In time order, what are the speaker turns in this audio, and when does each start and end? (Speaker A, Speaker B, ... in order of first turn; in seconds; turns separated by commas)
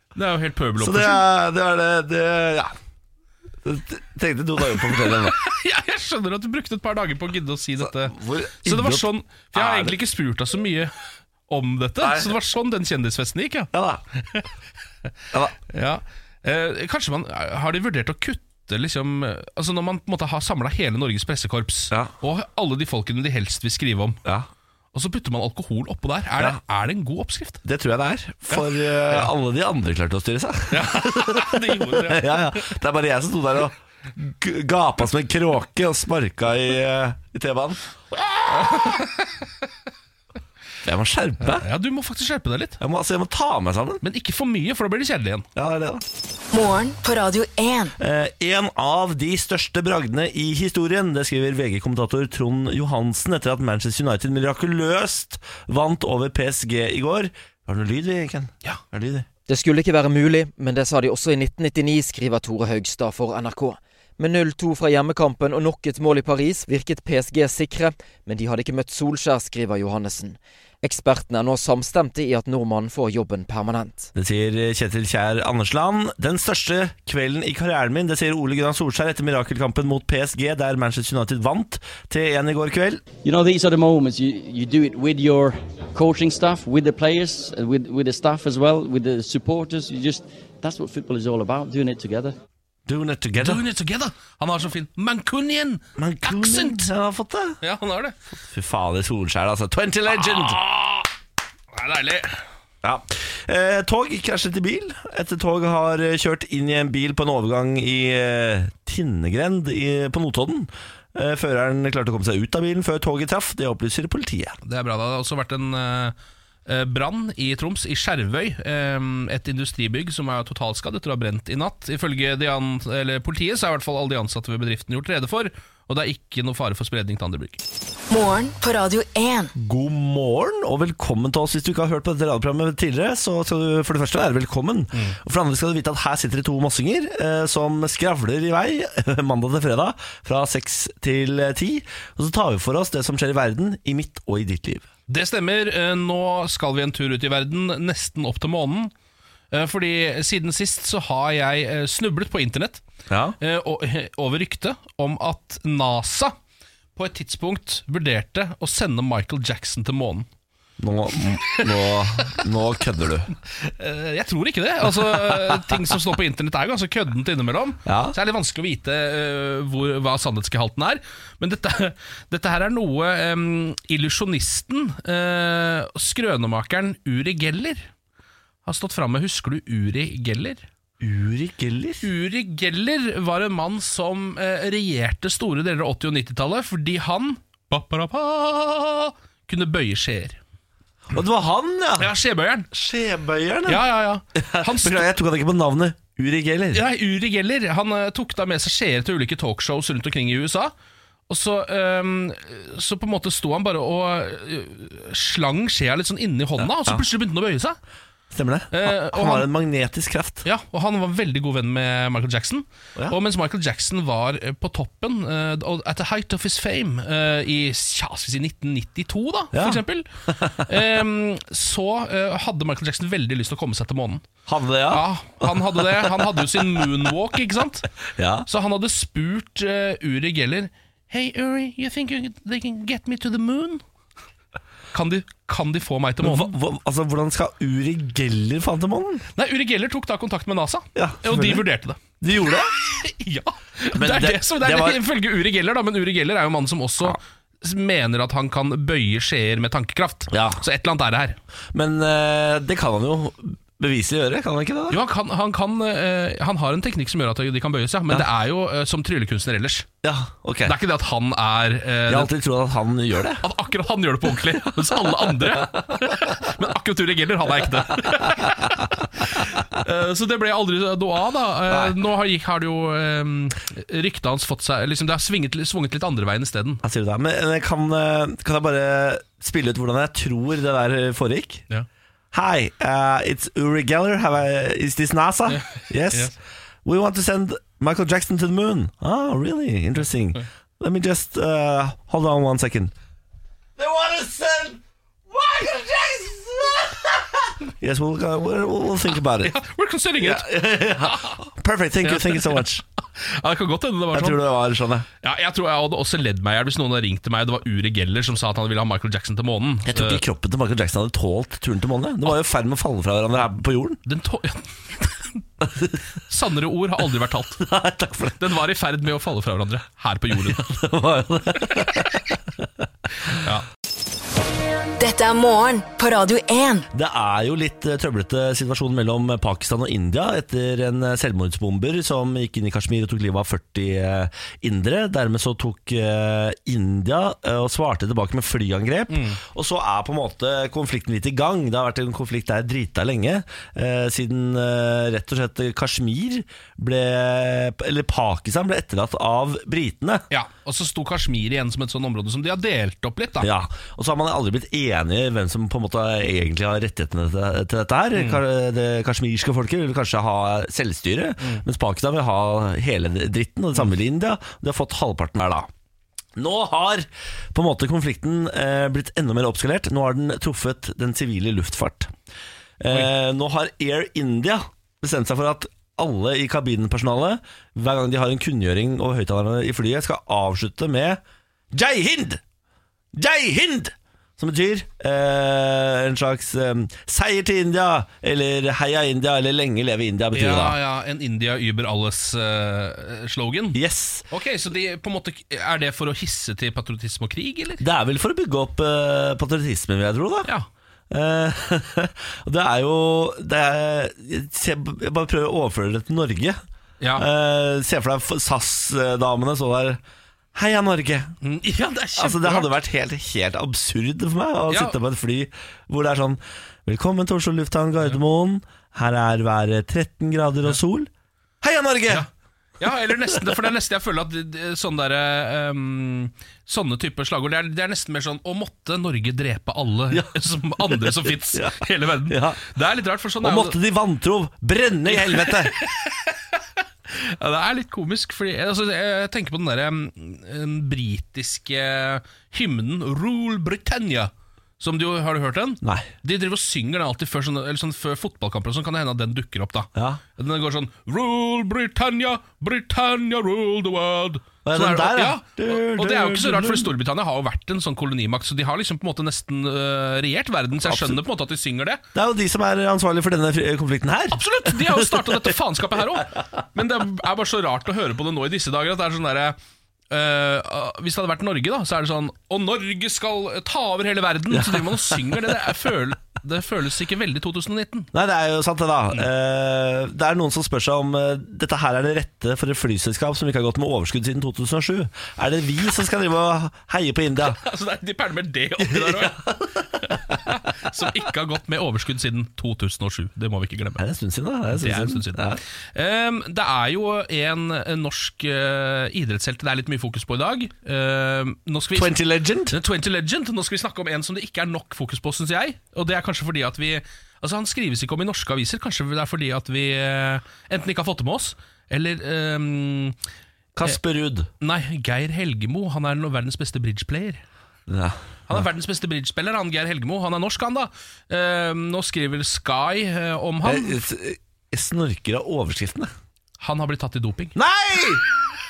Speaker A: 0.1-1.2, Speaker B: 0.8-2.7, Speaker B: 3.6-5.4, Speaker A: 4.8-10.9, Speaker B: 7.8-10.0, Speaker A: 11.5-14.5, Speaker B: 12.0-12.3, Speaker B: 13.7-14.0, Speaker A: 15.7-24.2, Speaker A: 24.9-27.6, Speaker B: 27.6-37.8, Speaker A: 28.5-29.3, Speaker A: 30.7-32.7, Speaker A: 38.5-39.2, Speaker B: 40.8-41.7, Speaker A: 41.5-42.8, Speaker B: 42.8-44.0, Speaker A: 44.0-45.5, Speaker B: 45.6-46.0, Speaker C: 46.5-48.0, Speaker B: 48.0-59.3, Speaker D: 59.5-74.1, Speaker B: 74.2-83.0, Speaker E: 83.2-92.3, Speaker B: 92.9-93.6, Speaker A: 93.4-96.9, Speaker B: 96.0-97.6, Speaker A: 97.6-98.2, Speaker B: 98.4-100.6, Speaker A: 100.1-101.1, Speaker A: 101.7-102.4, Speaker B: 102.8-114.6, Speaker A: 114.6-116.1, Speaker A: 116.7-127.6, Speaker C: 128.1-129.5, Speaker B: 129.6-144.9, Speaker A: 145.1-148.9, Speaker A: 149.5-152.8, Speaker B: 153.1-153.4, Speaker A: 153.4-156.3, Speaker A: 157.0-160.3, Speaker B: 160.8-163.3, Speaker A: 161.3-162.4, Speaker A: 163.6-177.9, Speaker B: 167.9-168.2, Speaker A: 178.7-180.7, Speaker B: 181.0-182.0, Speaker A: 182.0-190.4, Speaker B: 191.1-192.1, Speaker A: 192.0-192.7, Speaker B: 192.7-196.8, Speaker A: 193.7-195.1, Speaker A: 196.7-200.7, Speaker A: 201.3-207.8, Speaker B: 208.3-210.4, Speaker A: 208.7-209.5, Speaker A: 210.4-220.1, Speaker B: 219.5-219.8, Speaker B: 220.4-220.7, Speaker A: 220.7-224.3, Speaker B: 224.5-226.3, Speaker A: 224.9-227.9, Speaker B: 228.2-228.5, Speaker A: 228.5-233.8, Speaker A: 234.9-236.6, Speaker B: 236.2-239.2, Speaker A: 239.3-242.0, Speaker B: 241.0-241.6, Speaker B: 242.2-242.7, Speaker A: 242.7-251.4, Speaker B: 243.9-245.0, Speaker B: 250.3-250.6, Speaker B: 251.7-255.0, Speaker A: 254.9-259.9, Speaker B: 260.0-260.8, Speaker A: 260.7-262.3, Speaker B: 262.1-263.4, Speaker A: 263.3-276.8, Speaker B: 276.8-281.6, Speaker B: 282.3-286.3, Speaker A: 285.5-286.4, Speaker B: 286.9-292.9, Speaker B: 293.8-299.5, Speaker A: 299.4-301.4, Speaker B: 300.2-302.8, Speaker A: 302.0-304.4, Speaker B: 304.1-305.1, Speaker A: 305.2-310.2, Speaker B: 309.9-314.0, Speaker A: 314.1-315.4, Speaker A: 316.3-317.6, Speaker B: 317.6-318.5, Speaker A: 318.4-320.7, Speaker B: 320.5-322.1, Speaker A: 323.3-323.6, Speaker C: 325.0-326.9, Speaker B: 326.9-350.2, Speaker A: 339.1-339.4, Speaker A: 350.3-353.5, Speaker B: 353.4-365.7, Speaker A: 358.1-358.4, Speaker B: 366.4-372.1, Speaker B: 372.8-381.2, Speaker B: 381.7-382.4, Speaker B: 383.1-390.8, Speaker A: 390.3-393.8, Speaker B: 393.7-394.2, Speaker A: 394.3-397.8, Speaker B: 397.8-400.5, Speaker B: 401.1-406.6, Speaker A: 407.0-407.2, Speaker B: 407.2-410.0, Speaker B: 410.6-411.3, Speaker A: 411.4-412.7, Speaker B: 412.2-421.1, Speaker A: 414.7-414.9, Speaker B: 421.6-422.3, Speaker A: 422.8-433.8, Speaker B: 430.9-432.6, Speaker B: 433.4-435.8, Speaker A: 435.1-462.0, Speaker B: 445.8-446.1, Speaker B: 450.0-450.2, Speaker B: 454.6-456.9, Speaker B: 460.8-461.2, Speaker B: 462.1-465.5, Speaker A: 464.3-469.6, Speaker A: 470.1-478.1, Speaker B: 474.5-475.6, Speaker B: 478.1-487.6, Speaker A: 487.4-489.4, Speaker B: 488.8-490.4, Speaker A: 490.0-494.0, Speaker B: 494.0-495.6, Speaker A: 494.7-495.4, Speaker A: 495.9-502.2, Speaker B: 501.9-502.8, Speaker A: 502.7-513.2, Speaker B: 513.8-514.5, Speaker A: 514.6-517.4, Speaker B: 517.9-518.6, Speaker A: 518.5-524.0, Speaker B: 523.6-526.1, Speaker A: 526.6-527.5, Speaker B: 527.5-528.2